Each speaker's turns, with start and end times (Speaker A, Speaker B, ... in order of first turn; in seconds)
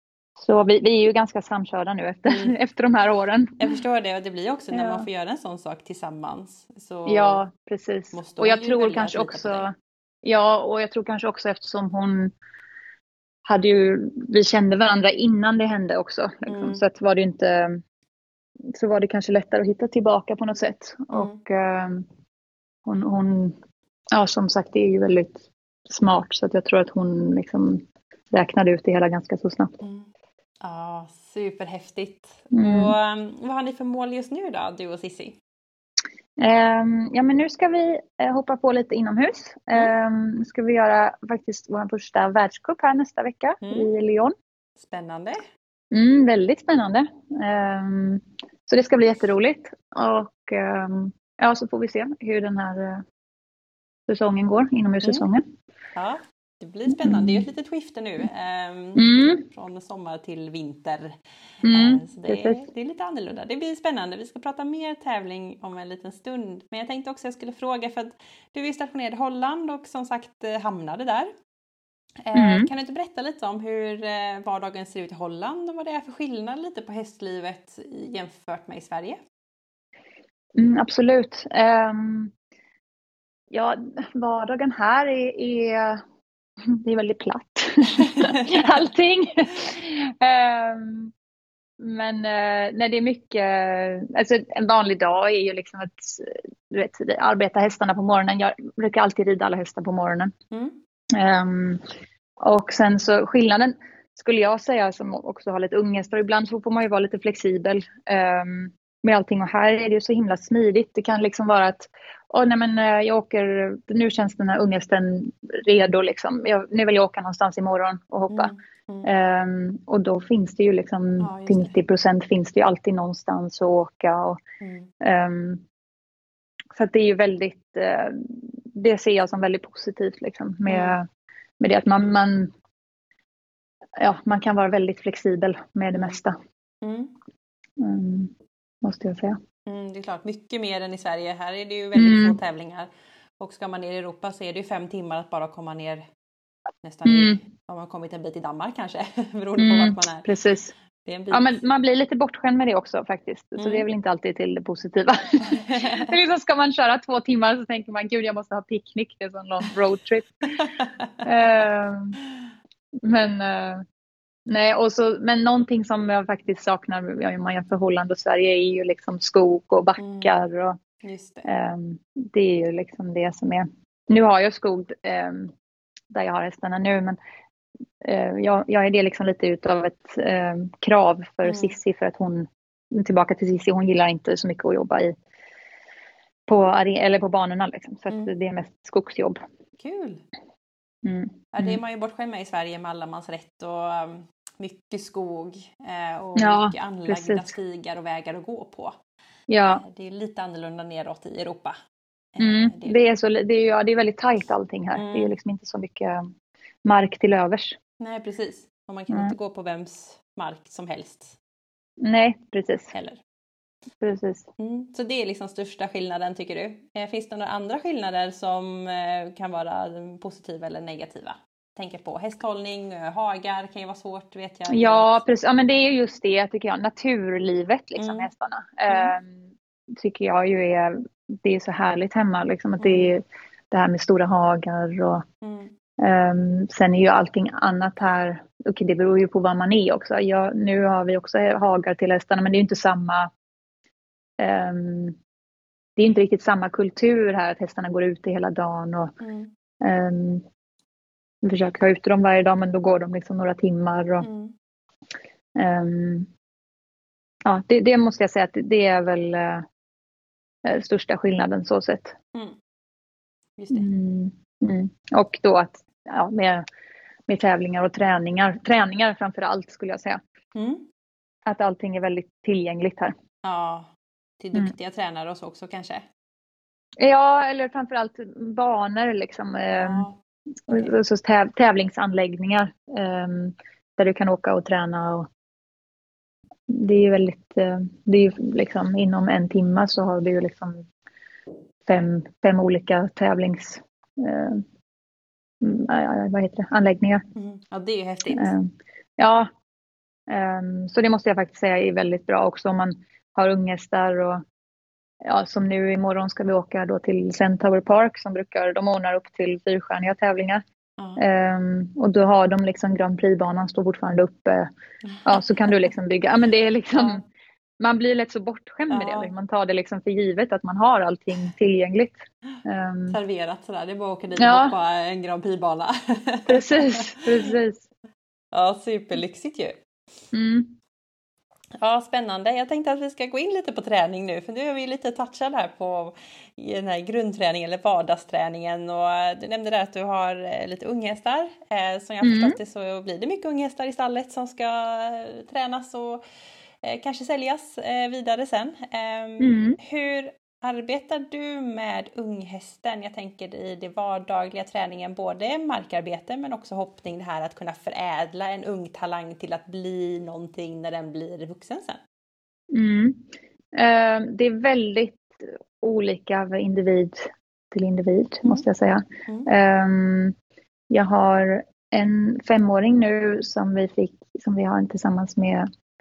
Speaker A: 0.4-3.6, 4.7-5.1, 7.0-9.7, 10.2-12.3, 13.4-17.8, 18.7-22.1, 22.8-23.6, 24.1-29.8, 32.5-32.9, 36.4-44.3, 45.9-53.0, 54.1-55.4, 56.9-57.5, 59.0-59.4, 61.6-62.6, 72.3-72.7, 80.6-82.3, 83.5-86.0, 86.6-91.1, 91.8-100.3, 101.1-101.8, 102.4-118.5, 119.0-124.4, 125.0-125.6, 126.7-131.1, 131.6-132.5, 134.0-136.3, 137.8-139.4, 141.9-142.4, 147.0-147.4, 149.6-150.7, 151.3-160.3, 161.2-162.2, 163.0-163.8, 164.5-170.8, 171.4-175.5, 176.1-177.2, 178.0-185.1, 186.5-189.4, 191.0-191.8, 196.4-197.5, 199.5-199.8, 202.4-206.3, 206.8-207.8, 212.0-212.9, 214.0-214.5, 224.7-229.4, 229.9-235.2, 236.0-243.3, 244.4-245.2, 246.0-249.1, 249.8-250.4, 251.4-254.3, 255.5-256.3, 257.4-259.6, 260.6-262.1, 263.7-266.6, 267.3-270.2, 271.4-273.1, 277.0-280.1, 280.7-285.3, 286.7-290.9, 291.9-294.6, 295.6-297.2, 298.3-299.5, 300.3-304.4, 305.2-310.6, 311.2-314.7, 315.2-317.2, 317.8-323.2, 324.4-324.7, 326.5-327.8, 330.3-330.8, 342.2-342.6, 349.4-349.8, 362.7-370.3, 370.9-375.7
Speaker B: 2.3-2.5, 3.6-7.4, 8.1-9.6, 16.4-16.8, 21.1-21.4, 29.8-30.1, 30.6-35.4, 43.6-43.9, 44.8-45.4, 56.0-61.1, 61.7-71.3, 72.2-79.2, 88.0-88.6, 100.5-100.8, 118.3-119.1, 121.2-121.7, 124.6-124.9, 130.7-131.0, 136.8-137.1, 139.7-142.9, 143.4-146.0, 146.8-150.2, 151.0-151.6, 153.6-153.8, 155.5-156.1, 160.6-161.1, 170.0-170.4, 171.0-171.5, 181.4-181.7, 189.8-190.2, 191.5-198.9, 199.7-201.8, 202.3-203.0, 204.9-205.3, 208.0-211.4, 212.9-213.2, 214.6-225.2, 228.0-228.3, 232.8-233.1, 235.4-235.7, 249.2-249.5, 254.2-254.5, 263.6-263.9, 270.5-270.9, 273.4-276.0, 279.7-280.2, 297.3-298.5, 315.0-315.7, 316.9-317.2, 318.9-319.3, 323.1-327.5, 328.5-329.8, 331.8-346.2, 346.8-362.0